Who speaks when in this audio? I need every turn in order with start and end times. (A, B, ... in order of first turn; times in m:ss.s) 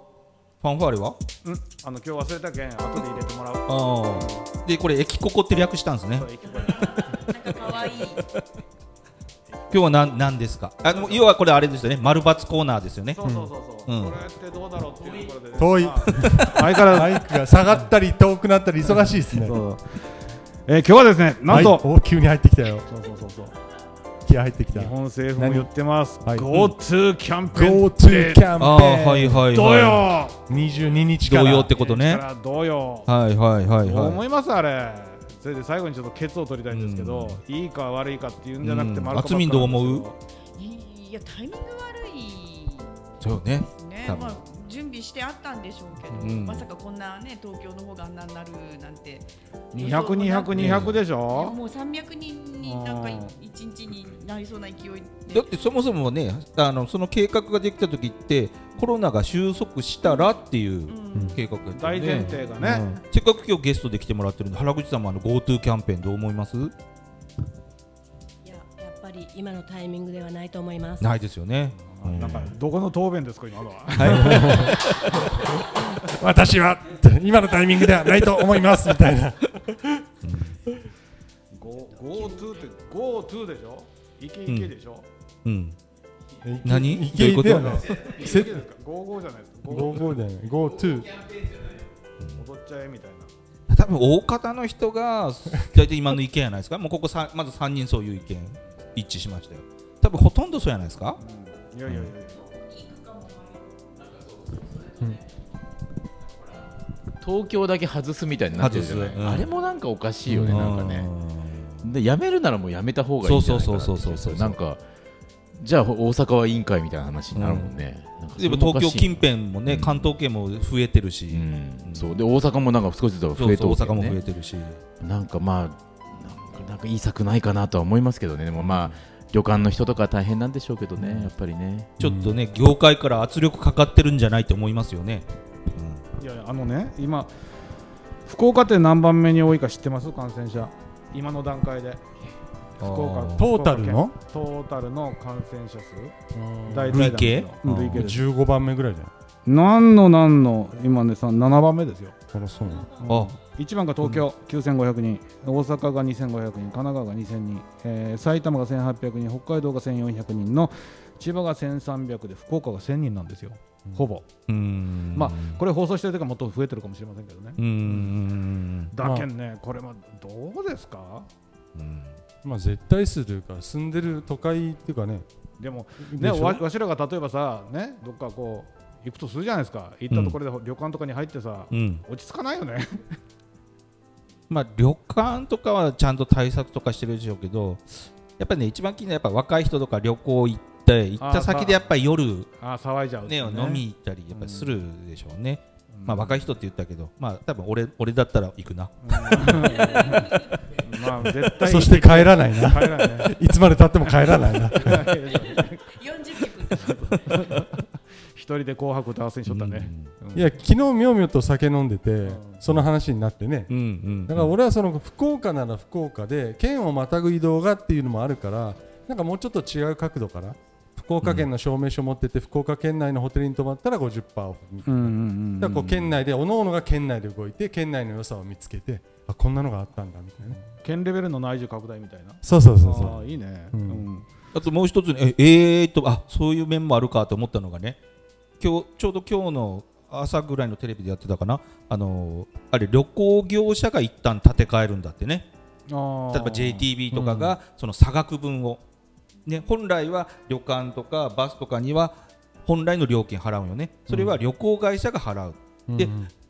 0:00.6-0:01.2 A
0:01.4-0:04.4 B
0:03.7-0:06.3 A
0:06.2-0:07.3 B
0:07.3-0:08.2 C
0:09.7-0:10.1 B
0:09.7-0:13.2 A
0:10.9-0:11.3 B
0:13.2-0:17.3 B
0:13.2-0:13.5 D
0:13.9-0:14.2 A
0:15.6-0:19.6 D
0:19.3-0:20.0 B
0:20.7-0:21.9 B
0:21.5-0:22.9 D
0:22.9-0:23.6 B
0:24.3-0:25.7 D
0:24.7-0:28.5 B
0:26.2-0:26.5 D
0:27.5-0:29.5 D
0:28.6-0:30.1 A
0:29.5-0:30.4 B
0:30.5-0:31.7 D
0:31.2-0:32.2 A
0:31.7-0:33.1 B
0:33.1-0:34.2 A
0:33.8-0:40.2 B
0:36.7-0:37.4 A
0:38.6-0:40.1 A
0:40.6-0:42.9 C
0:43.2-0:44.4 A
0:43.6-0:55.5 C
0:46.1-0:46.7 A
0:49.7-0:51.6 B
0:50.5-0:51.0 A
0:52.6-0:53.4 B
0:55.3-1:06.7 A
1:00.0-1:00.3 C
1:00.9-1:01.4 C
1:01.7-1:03.0 B
1:08.4-1:11.1 E
1:11.0-1:12.5 A
1:11.8-1:14.8 B
1:14.0-1:15.2 A
1:14.0-1:14.8 D
1:16.0-1:20.0 D
1:20.2-1:20.6 A
1:21.5-1:25.1 B
1:25.4-1:25.8 A
1:26.4-1:28.6 D
1:26.6-1:28.0 A
1:27.9-1:30.2 B
1:29.7-1:31.3 D
1:32.4-1:33.3 B
1:33.7-1:41.2 A
1:41.2-1:42.5 B
1:42.8-1:43.7 C
1:47.2-1:51.1 F
1:48.6-1:49.5 A
1:50.3-1:51.8 A
1:51.8-1:54.8 F
1:53.2-1:54.6 A
1:55.6-2:00.1 F
1:57.4-1:57.7 A
1:58.4-2:02.1 A
2:01.3-2:04.2 F
2:03.4-2:04.8 A
2:05.0-2:11.9 F
2:12.0-2:16.0 A
2:12.0-2:12.4 D
2:16.2-2:17.3 B
2:18.3-2:22.0 B
2:22.8-2:26.2 B
2:22.8-2:23.5 A
2:23.4-2:24.2 D
2:26.3-2:27.1 D
2:26.7-2:28.2 B
2:26.9-2:28.1 A
2:27.7-2:29.1 D
2:29.5-2:32.2 B
2:32.3-2:32.9 D
2:32.7-2:33.1 C
2:33.0-2:44.3 B
2:33.1-2:33.3 A
2:44.5-2:45.6 A
2:45.2-2:48.1 B
2:47.6-2:48.9 A
2:48.9-2:51.3 B
2:49.0-2:49.3 D
2:51.8-2:52.2 A
2:52.4-2:55.2 D
2:55.6-3:03.2 B
2:56.0-2:56.6 D
3:00.1-3:00.4 A
3:01.7-3:02.0 A
3:04.5-3:12.5 A
3:11.2-3:11.8 B
3:12.6-3:13.8 B
3:13.3-3:20.0 A
3:14.3-3:14.7 B
3:15.9-3:16.4 B
3:19.0-3:23.3 B
3:19.8-3:20.4 C
3:21.6-3:25.2 D
3:24.7-3:26.0 B
3:25.4-3:27.0 C
3:26.7-3:30.5 B
3:29.5-3:30.1 A
3:30.3-3:33.7 D
3:32.2-3:32.6 B
3:33.7-3:34.5 A
3:34.3-3:50.6 D
3:44.9-3:46.1 B
3:50.8-3:54.3 B
3:52.4-3:53.2 D
3:53.7-3:54.1 D
3:54.6-3:58.0 A
3:58.6-4:05.5 A
4:05.9-4:06.9 B
4:06.3-4:08.8 A
4:07.1-4:07.6 D
4:09.5-4:16.1 A
4:14.1-4:14.4 D
4:15.9-4:16.3 D